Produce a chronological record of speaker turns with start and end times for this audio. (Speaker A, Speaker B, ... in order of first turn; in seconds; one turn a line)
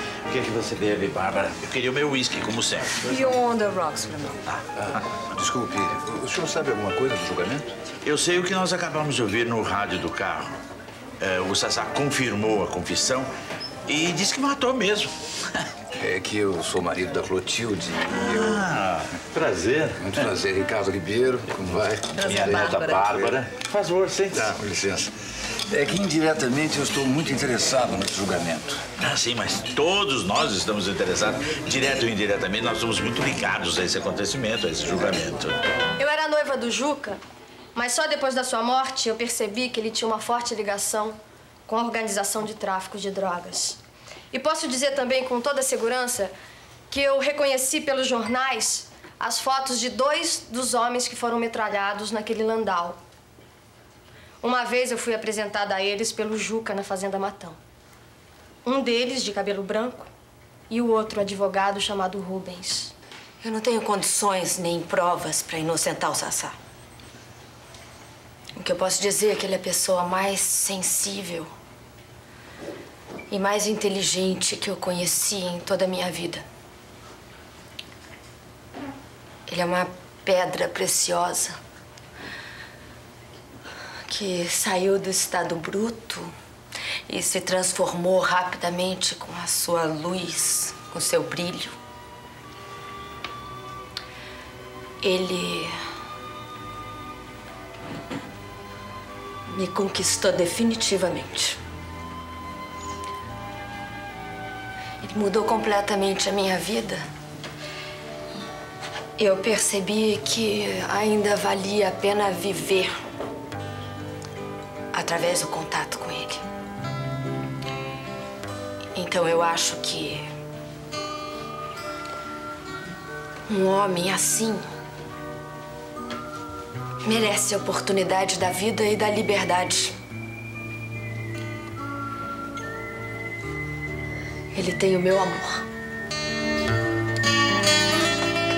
Speaker A: 0.3-3.1
Speaker B: 3.0-4.4
Speaker C: 4.8-7.7
Speaker A: 8.0-10.5
Speaker A: 11.2-13.3
Speaker A: 13.9-15.6
Speaker C: 16.0-18.7
Speaker A: 18.1-20.2
Speaker C: 20.0-23.4
Speaker B: 22.1-23.0
Speaker A: 22.2-24.6
Speaker C: 24.3-25.1
Speaker C: 25.7-28.8
Speaker A: 29.0-35.6
Speaker D: 36.0-37.2
Speaker D: 37.7-43.8
Speaker D: 44.3-46.3
Speaker D: 46.9-53.0
Speaker D: 54.4-57.6
Speaker D: 58.6-60.1
Speaker D: 60.7-62.9
Speaker E: 63.4-66.5
Speaker E: 68.5-71.5
Speaker E: 73.3-76.4
Speaker E: 79.5-81.5
Speaker E: 84.1-86.3
Speaker E: 87.0-91.7
Speaker E: 95.0-95.7
Speaker E: 99.5-101.6
Speaker E: 105.0-107.0
Speaker E: 109.2-112.9
Speaker E: 114.9-116.4
Speaker E: 118.9-120.3
Speaker E: 123.5-124.6
Speaker E: 127.0-129.9
Speaker E: 134.5-135.6